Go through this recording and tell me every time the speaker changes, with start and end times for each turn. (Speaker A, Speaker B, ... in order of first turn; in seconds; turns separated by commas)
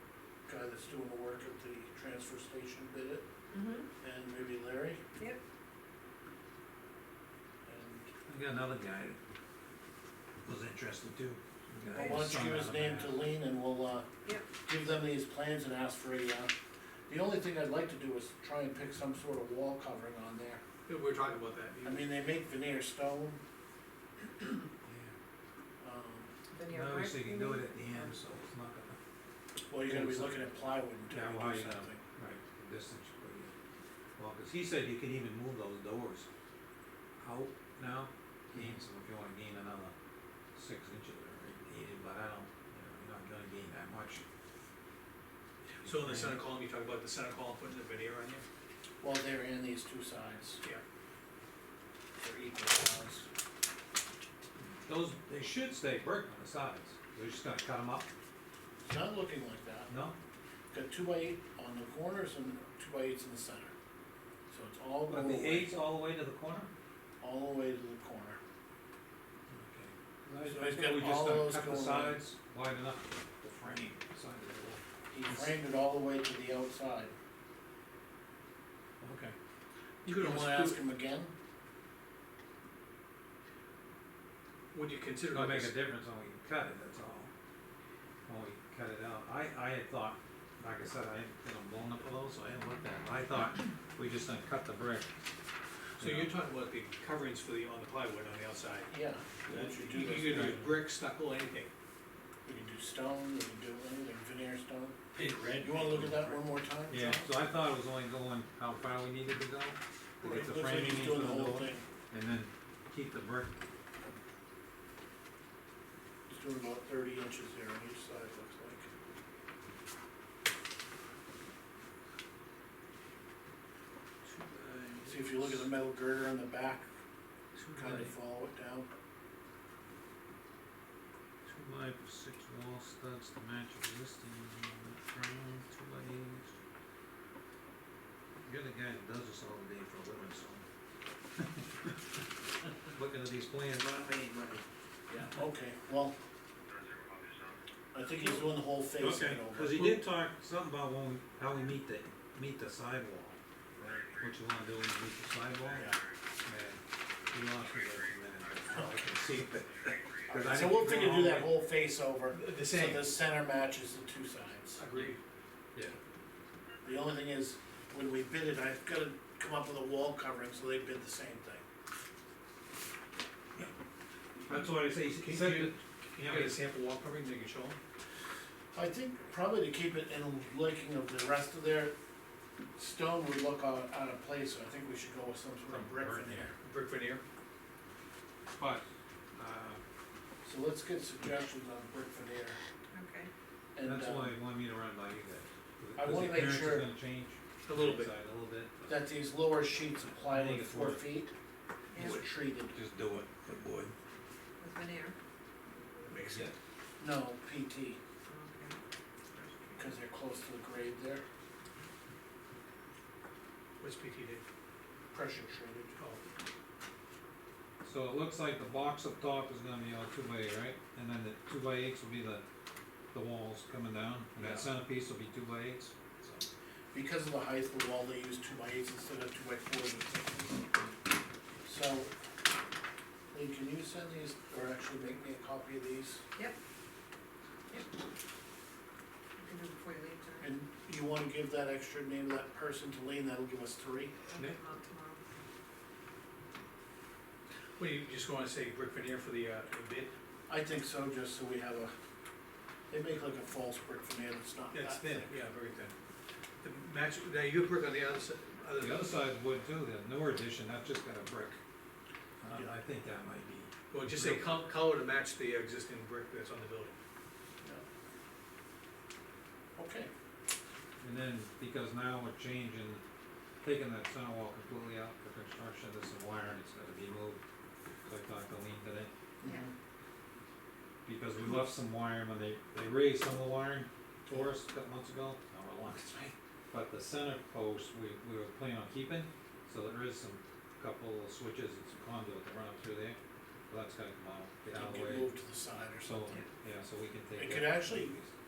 Speaker A: 0.5-3.2, Speaker B: 3.5-3.9, Speaker A: 4.0-5.0, Speaker A: 7.7-8.1, Speaker C: 8.3-9.2, Speaker C: 10.4-13.2, Speaker A: 11.9-14.1, Speaker B: 11.9-12.2, Speaker A: 14.6-16.5, Speaker A: 17.1-20.6, Speaker D: 20.9-22.1, Speaker A: 21.8-23.4, Speaker C: 24.9-25.1, Speaker A: 25.8-26.3, Speaker B: 26.5-28.1, Speaker C: 26.7-29.0, Speaker A: 29.7-32.0, Speaker C: 29.8-30.4, Speaker C: 31.1-33.5, Speaker C: 34.2-36.3, Speaker C: 37.2-39.9, Speaker C: 40.5-44.2, Speaker D: 45.8-48.5, Speaker C: 45.9-46.4, Speaker A: 49.0-50.6, Speaker A: 52.2-53.3, Speaker C: 54.8-58.1, Speaker A: 58.8-59.9, Speaker C: 59.9-60.2, Speaker A: 60.7-63.7, Speaker A: 64.5-65.8, Speaker C: 65.1-66.7, Speaker A: 67.2-68.4, Speaker C: 70.3-75.6, Speaker A: 70.5-72.2, Speaker A: 75.1-77.1, Speaker D: 79.0-79.3, Speaker D: 80.0-80.8, Speaker A: 80.1-81.3, Speaker D: 84.7-85.8, Speaker C: 85.2-87.3, Speaker C: 88.3-95.1, Speaker C: 96.0-96.3, Speaker D: 96.0-98.9, Speaker A: 98.9-100.8, Speaker D: 99.5-101.7, Speaker C: 100.2-100.5, Speaker A: 102.5-105.0, Speaker D: 105.2-106.3, Speaker C: 105.2-105.6, Speaker A: 105.6-107.3, Speaker C: 106.9-113.5, Speaker A: 110.2-111.8, Speaker A: 116.3-118.9, Speaker C: 124.2-125.7, Speaker A: 125.0-126.9, Speaker C: 127.5-128.2, Speaker A: 127.7-128.9, Speaker C: 131.4-136.6, Speaker C: 138.4-140.7, Speaker C: 141.4-141.9, Speaker C: 142.9-144.6, Speaker A: 145.1-146.2, Speaker A: 147.9-150.0, Speaker C: 149.0-153.4, Speaker C: 154.2-161.6, Speaker A: 160.3-164.8, Speaker D: 162.3-163.2, Speaker D: 164.8-165.2, Speaker A: 166.8-171.6, Speaker C: 174.5-176.6, Speaker D: 175.1-177.8, Speaker A: 178.7-181.9, Speaker A: 182.8-186.5, Speaker C: 185.7-186.6, Speaker D: 186.6-187.2, Speaker C: 188.6-189.8, Speaker A: 190.4-192.6, Speaker B: 192.9-193.3, Speaker A: 193.8-194.4, Speaker C: 193.8-198.9, Speaker A: 196.0-196.9, Speaker D: 197.7-198.1, Speaker A: 198.9-201.3, Speaker C: 200.2-201.1, Speaker B: 201.9-202.2, Speaker A: 201.9-202.8, Speaker C: 202.7-203.9, Speaker B: 204.6-205.2, Speaker D: 206.1-206.5, Speaker C: 206.2-206.5, Speaker A: 207.0-208.0, Speaker B: 208.3-208.8, Speaker B: 209.3-210.0, Speaker A: 209.8-211.2, Speaker D: 213.8-214.4, Speaker A: 215.1-215.9, Speaker D: 216.0-216.2, Speaker C: 217.8-222.4, Speaker C: 223.1-226.5, Speaker D: 224.4-224.6, Speaker A: 226.9-230.7, Speaker A: 231.7-232.1, Speaker A: 233.3-236.2, Speaker B: 239.4-240.5, Speaker A: 240.4-244.2, Speaker B: 244.3-245.2, Speaker D: 247.8-250.1, Speaker A: 250.5-251.9, Speaker A: 252.9-255.4, Speaker D: 254.7-255.9, Speaker D: 256.6-259.2, Speaker C: 258.8-261.6, Speaker C: 262.4-264.6, Speaker A: 262.5-262.8, Speaker D: 263.9-267.0, Speaker A: 269.8-270.1, Speaker C: 271.0-273.0, Speaker C: 273.6-277.4, Speaker C: 278.1-279.1, Speaker A: 279.4-279.7, Speaker C: 281.1-293.2, Speaker C: 293.7-295.3, Speaker A: 294.7-296.4, Speaker C: 296.0-298.3, Speaker A: 297.4-298.2